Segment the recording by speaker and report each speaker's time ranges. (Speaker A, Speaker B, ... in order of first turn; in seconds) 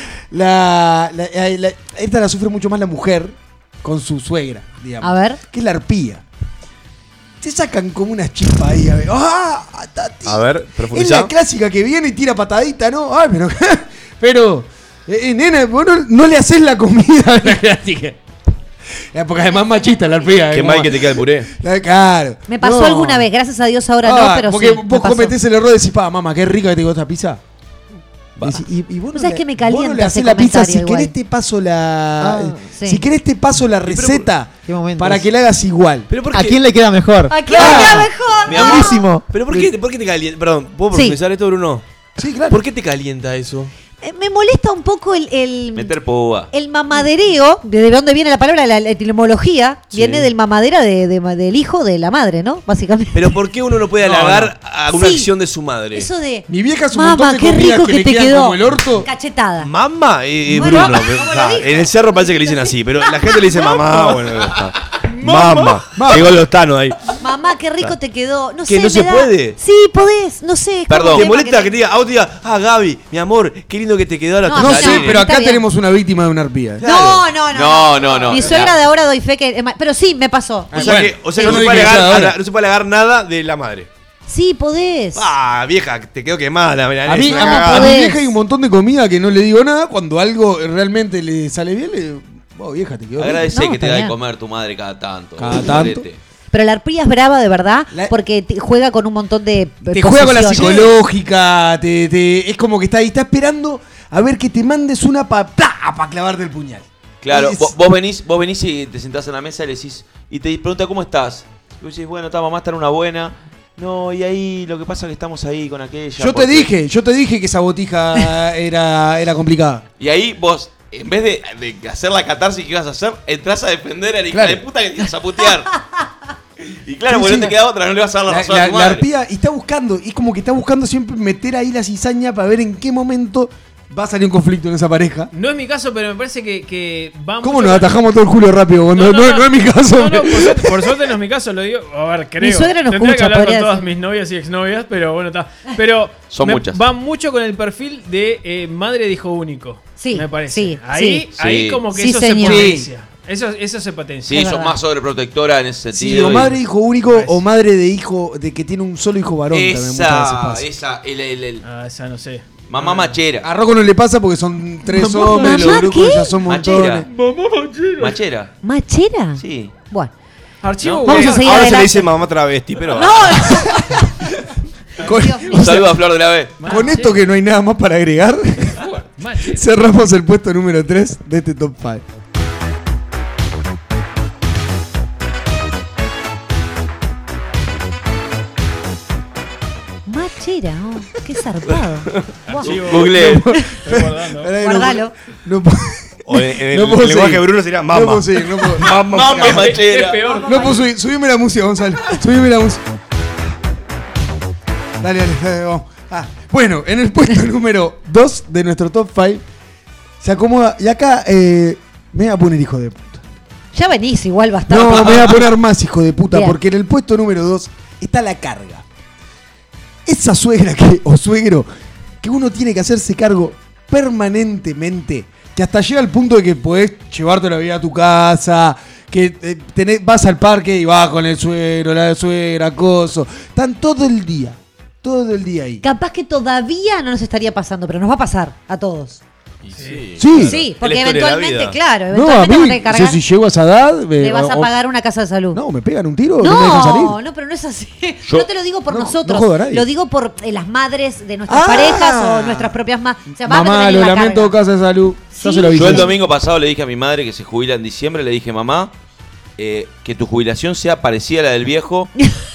Speaker A: 0.3-6.2, 7.4-18.2, 19.1-23.3, 24.0-27.4, 28.4-36.1, 37.5-38.1, 42.2-42.6, 56.5-59.1, 65.4-66.4, 74.5-76.8, 80.7-82.4, 87.0-93.6, 95.4-96.0, 99.9-107.7, 116.2-119.8, 124.3-124.6, 127.1-127.5, 128.3-135.3, 137.4-141.0, 152.4-152.9, 155.9-160.7, 163.4-167.1, 173.6-174.2, 175.0-176.0, 176.7-178.8, 179.4-182.0, 193.1-199.0, 200.4-202.8, 205.0-209.4, 210.2-213.2, 214.7-218.8, 220.1-221.7, 222.2-235.8, 240.2-240.6, 242.1-244.7, 245.5-247.2, 248.9-249.9, 251.5-252.7, 253.4-256.1
Speaker B: 5.0-5.4, 22.5-25.4, 29.1-31.1, 32.7-33.0, 37.3-39.0, 40.9-41.2, 44.0-45.9, 46.5-53.3, 54.9-55.3, 55.9-59.7, 60.5-63.8, 67.2-71.7, 74.5-75.6, 76.8-82.1, 84.3-85.3, 87.2-88.3, 93.5-94.1, 96.5-100.9, 142.4-143.9, 150.0-151.3, 151.9-152.7, 154.3-154.8, 165.1-166.4, 168.6-170.1, 171.1-172.1, 172.9-174.1, 175.0-175.8, 190.1-192.7, 194.6-195.1, 213.7-215.5, 216.3-216.6, 235.8-239.2, 240.3-243.2, 244.2-245.6, 246.4-254.6, 255.3-256.1
Speaker C: 10.3-11.3, 20.5-21.5, 33.8-34.3, 36.1-36.6, 39.3-41.8, 42.5-43.7, 49.9-50.3, 53.1-56.1, 59.6-67.0, 68.7-69.6, 71.1-75.2, 76.8-77.2, 80.7-83.9, 85.1-87.9, 171.1-173.6, 196.3-199.8, 239.6-241.8
Speaker D: 32.2-32.6, 34.7-35.3, 36.3-39.6
Speaker E: 38.5-39.0, 45.7-46.5, 70.9-71.3, 74.6-75.1, 77.5-78.8, 93.2-96.2, 107.2-116.7, 120.0-125.8, 126.7-129.1, 146.3-146.8, 151.3-151.8, 154.3-156.6, 159.5-161.6, 162.7-163.5, 166.4-167.1, 168.0-168.5, 169.4-169.7, 170.8-171.1, 175.5-176.7, 192.6-193.4, 198.8-200.4, 255.7-258.9, 259.6-262.1
Speaker F: 135.3-138.0, 138.9-154.4, 157.0-157.4, 161.6-163.2, 167.1-168.2, 170.6-171.6, 176.6-177.2, 179.0-179.6, 192.5-194.5, 199.4-200.9, 239.7-240.2